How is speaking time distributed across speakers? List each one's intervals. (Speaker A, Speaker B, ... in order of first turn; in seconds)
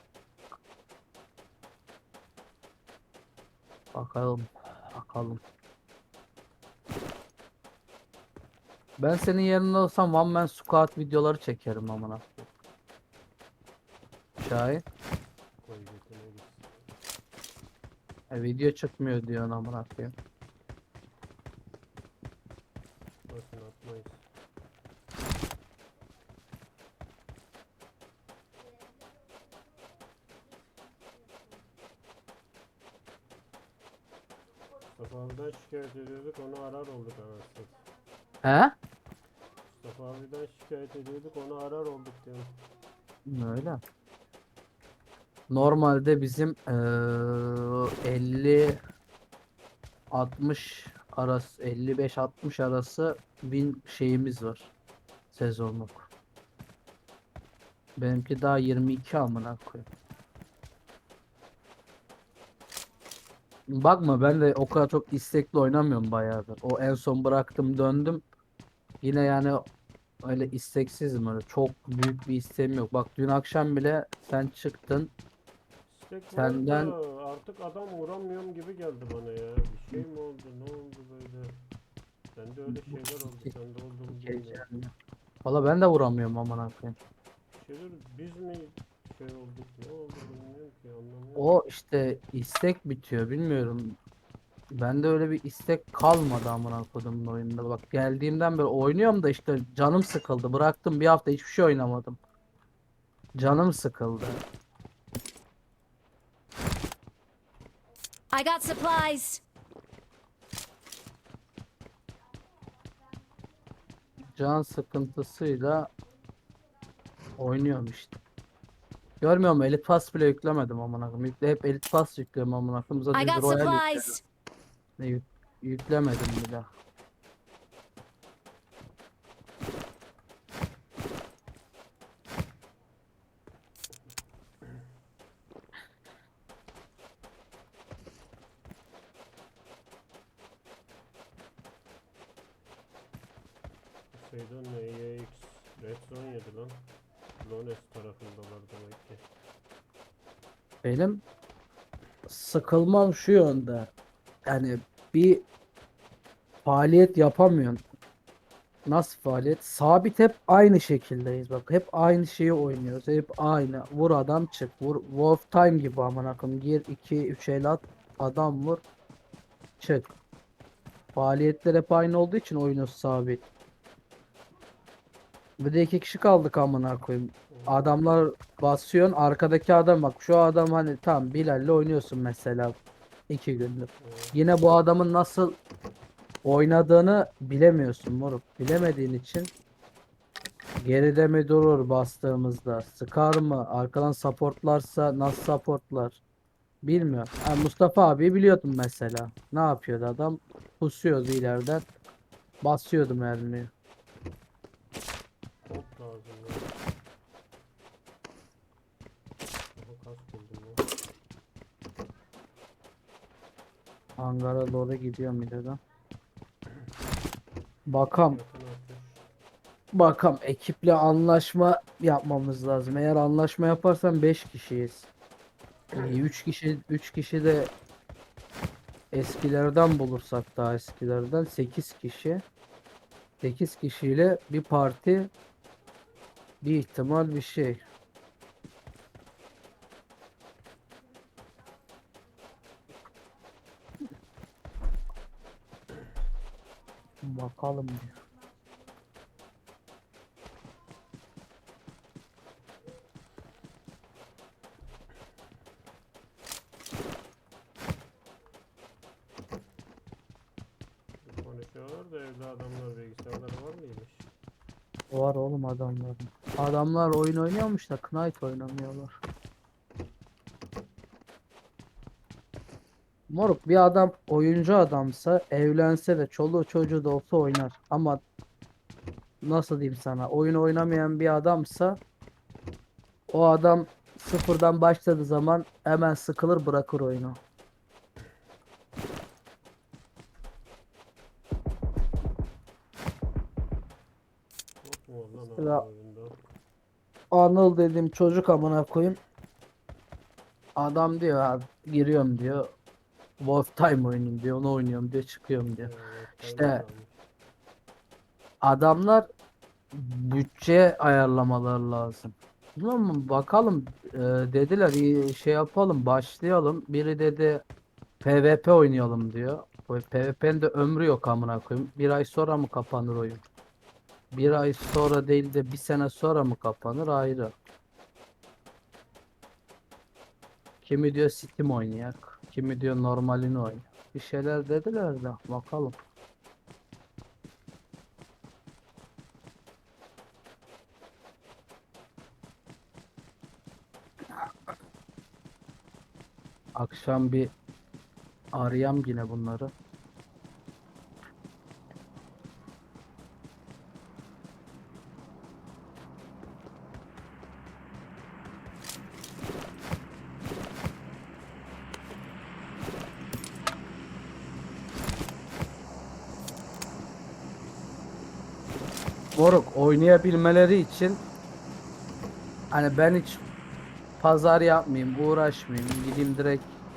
Speaker A: 3.9-5.4, 9.0-12.4, 14.4-14.8, 18.3-20.1, 38.4-38.7, 43.3-43.8, 45.5-48.8, 50.1-54.7, 55.3-56.1, 58.0-59.9, 63.7-68.2, 69.0-69.7, 70.2-75.1, 76.3-77.0, 82.7-83.5, 84.1-84.9, 85.5-87.0, 91.4-94.0, 94.7-102.2, 103.4-104.4, 114.2-115.9, 117.4-118.2, 119.2-124.1, 125.0-126.7, 150.8-151.2, 152.3-153.9, 154.5-155.4, 156.7-157.8, 158.9-168.8, 169.8-170.1, 171.2-173.4, 175.6-182.8, 183.3-185.6, 186.4-189.5, 190.8-196.2, 196.8-201.8, 202.6-203.7, 214.2-215.8, 217.9-218.4, 219.9-225.1, 225.9-227.7, 229.1-232.4, 233.4-235.3, 236.6-237.8, 247.2-248.2, 265.1-269.1, 273.3-278.2, 279.4-282.0, 283.3-287.4, 295.6-295.8, 297.3-299.2, 300.8-302.7, 303.4-305.9, 306.4-306.8, 308.6-309.3, 309.9-317.6, 318.2-323.4, 324.3-327.5, 330.8-336.0, 346.8-347.5, 348.5-349.7, 369.4-371.2, 372.7-373.4, 374.2-376.7
Speaker B: 15.6-16.9, 23.3-24.2, 34.9-37.8, 39.7-42.5, 75.9-81.6, 82.3-84.7, 87.5-91.6, 144.1-146.8, 147.4-149.2, 177.5-177.9, 184.0-184.4, 205.7-206.7, 209.8-210.8, 218.0-219.2, 261.2-264.3, 294.8-296.4, 305.8-307.2
Speaker C: 108.3-109.4, 123.1-124.2